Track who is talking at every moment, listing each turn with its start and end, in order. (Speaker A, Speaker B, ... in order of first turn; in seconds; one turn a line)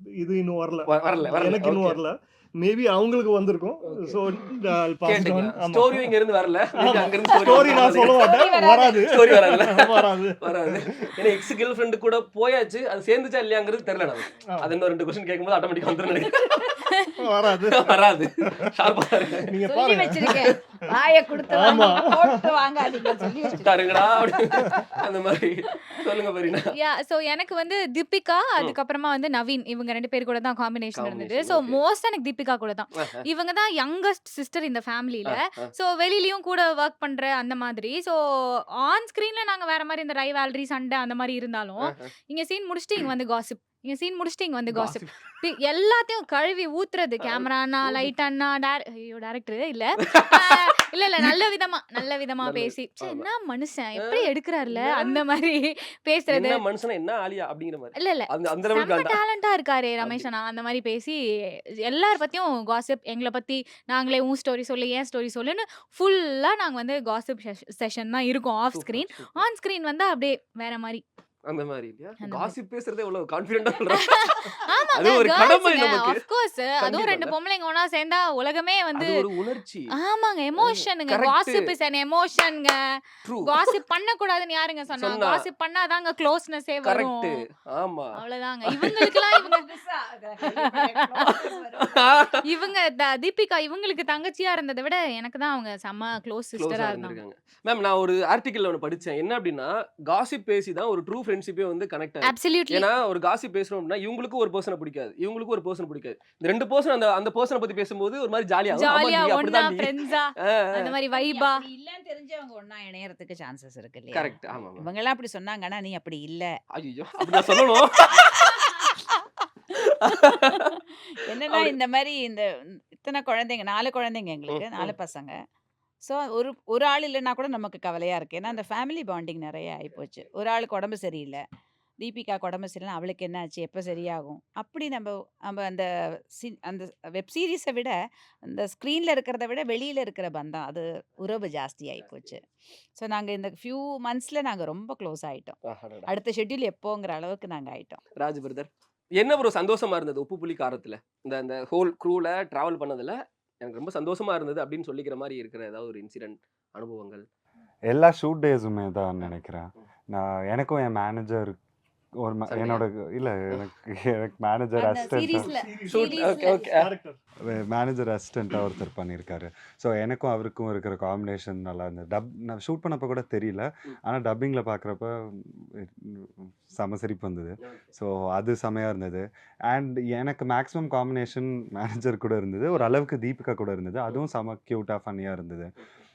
Speaker A: 0.2-6.2
Speaker B: 0.9-2.0
Speaker B: 3.8-4.2
Speaker B: 5.0-8.2
Speaker A: 6.8-11.3
Speaker C: 7.4-9.1
Speaker B: 9.1-16.8
Speaker D: 16.9-17.1
Speaker A: 17.2-20.5
Speaker B: 17.7-19.5
Speaker C: 19.6-24.9
Speaker A: 21.5-23.5
Speaker B: 23.6-26.7
Speaker D: 26.6-56.6
Speaker B: 31.0-31.8
Speaker B: 35.3-35.7
Speaker B: 41.8-42.1
Speaker B: 44.7-45.1
Speaker B: 47.2-48.1
Speaker B: 50.0-50.7
Speaker B: 52.4-53.3
Speaker B: 54.0-55.2
Speaker B: 56.3-59.2
Speaker D: 58.0-61.2
Speaker B: 60.0-60.3
Speaker D: 61.9-71.0
Speaker B: 68.7-69.4
Speaker B: 71.5-76.2
Speaker D: 72.2-72.5
Speaker D: 73.9-79.1
Speaker B: 76.8-77.3
Speaker B: 79.0-79.9
Speaker D: 80.0-82.8
Speaker B: 80.6-81.6
Speaker B: 83.2-83.6
Speaker D: 83.4-87.3
Speaker B: 85.0-85.5
Speaker B: 86.8-88.2
Speaker D: 88.2-89.7
Speaker B: 88.7-89.2
Speaker C: 89.3-92.4
Speaker D: 90.8-91.3
Speaker B: 91.8-92.4
Speaker D: 92.5-97.2
Speaker B: 96.6-111.0
Speaker D: 102.2-102.9
Speaker D: 108.7-111.7
Speaker C: 111.1-116.5
Speaker B: 114.1-114.9
Speaker B: 116.7-118.5
Speaker C: 117.2-119.3
Speaker B: 119.7-120.8
Speaker C: 120.0-125.4
Speaker B: 121.5-121.8
Speaker B: 124.5-125.0
Speaker C: 126.0-131.4
Speaker C: 132.0-142.5
Speaker C: 143.0-148.0
Speaker B: 145.7-146.1
Speaker B: 148.2-157.2
Speaker E: 157.9-161.6
Speaker E: 162.2-165.5
Speaker B: 162.5-162.8
Speaker D: 164.8-166.7
Speaker A: 165.2-167.2
Speaker B: 165.9-166.9
Speaker E: 167.5-185.7
Speaker B: 177.6-177.9